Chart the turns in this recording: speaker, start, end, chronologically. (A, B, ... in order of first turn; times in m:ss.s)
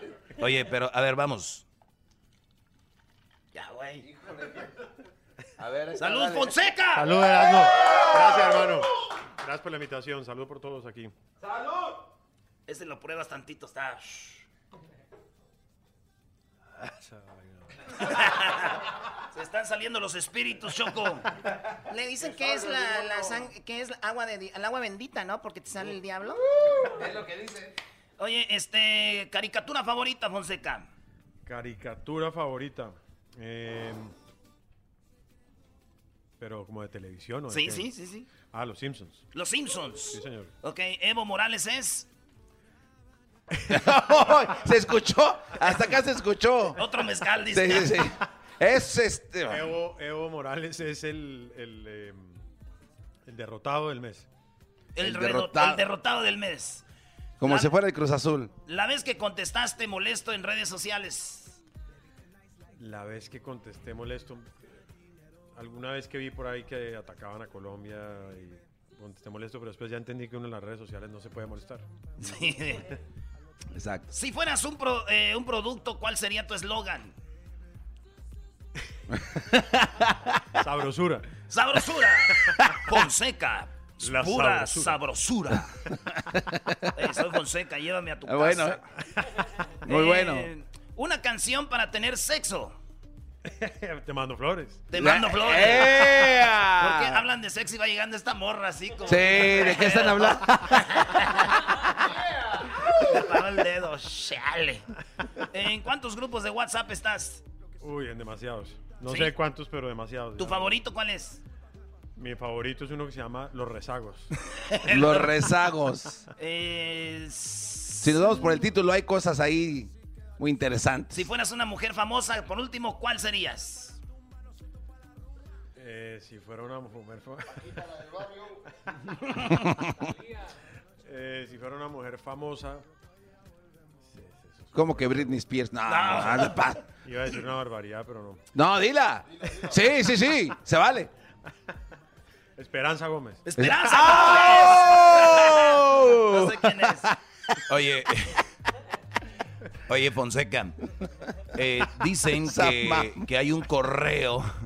0:00.4-0:01.6 A
0:03.5-0:04.0 B
0:05.6-0:06.5 C
0:06.0-0:07.5 B
0:07.0-0:08.9 D
0:09.4-0:11.1 D
0:12.7-0:14.5 B
0:16.8-0:17.7 D
0:18.0-0:18.8 B
0:19.3-0:21.3 B
0:21.9-0:26.4 E
0:28.2-0:30.9 B
0:31.5-0:34.1 D
0:36.4-0:37.9 D
0:37.5-0:38.3 B
0:38.4-0:39.2 D
0:39.3-0:42.1 B
0:40.1-0:40.5 D
0:43.7-0:46.8 C
0:46.8-0:48.0 B
0:47.5-0:49.7 C
0:49.5-0:52.4 D
0:53.3-0:54.3 D
0:55.0-0:56.8 B
0:55.0-0:55.8 C
0:57.4-0:58.5 C
0:57.4-0:57.7 B
0:58.7-1:01.6 B
1:02.8-1:04.6 D
1:05.6-1:11.9 D
1:12.2-1:12.9 B
1:13.7-1:14.0 C
1:14.1-1:17.1 B
1:20.6-1:21.3 D
1:21.5-1:25.7 B
1:24.0-1:25.0 D
1:26.9-1:28.8 B
1:28.3-1:28.8 C
1:29.8-1:30.5 C
1:29.9-1:32.8 B
1:33.5-1:34.9 D
1:34.9-1:41.6 B
1:35.0-1:37.2 C
1:39.1-1:40.9 C
1:42.8-1:44.8 B
1:45.5-1:47.4 B
1:47.8-1:50.8 D
1:49.0-1:49.3 B
1:50.4-1:51.4 B
1:52.2-1:54.3 D
1:54.7-1:55.4 B
1:54.9-1:56.2 C
1:56.4-1:58.6 B
1:58.0-2:01.3 C
2:01.1-2:04.0 B
2:05.8-2:07.7 D
2:11.0-2:12.8 D
2:14.1-2:15.4 D
2:14.7-2:16.8 C
2:15.9-2:16.6 B
2:17.0-2:18.4 D
2:18.6-2:21.1 C
2:22.6-2:23.4 D
2:23.5-2:27.1 B
2:23.6-2:27.1 C
2:27.7-2:28.4 A
2:29.9-2:30.8 A
2:31.6-2:34.5 A
2:32.3-2:33.2 C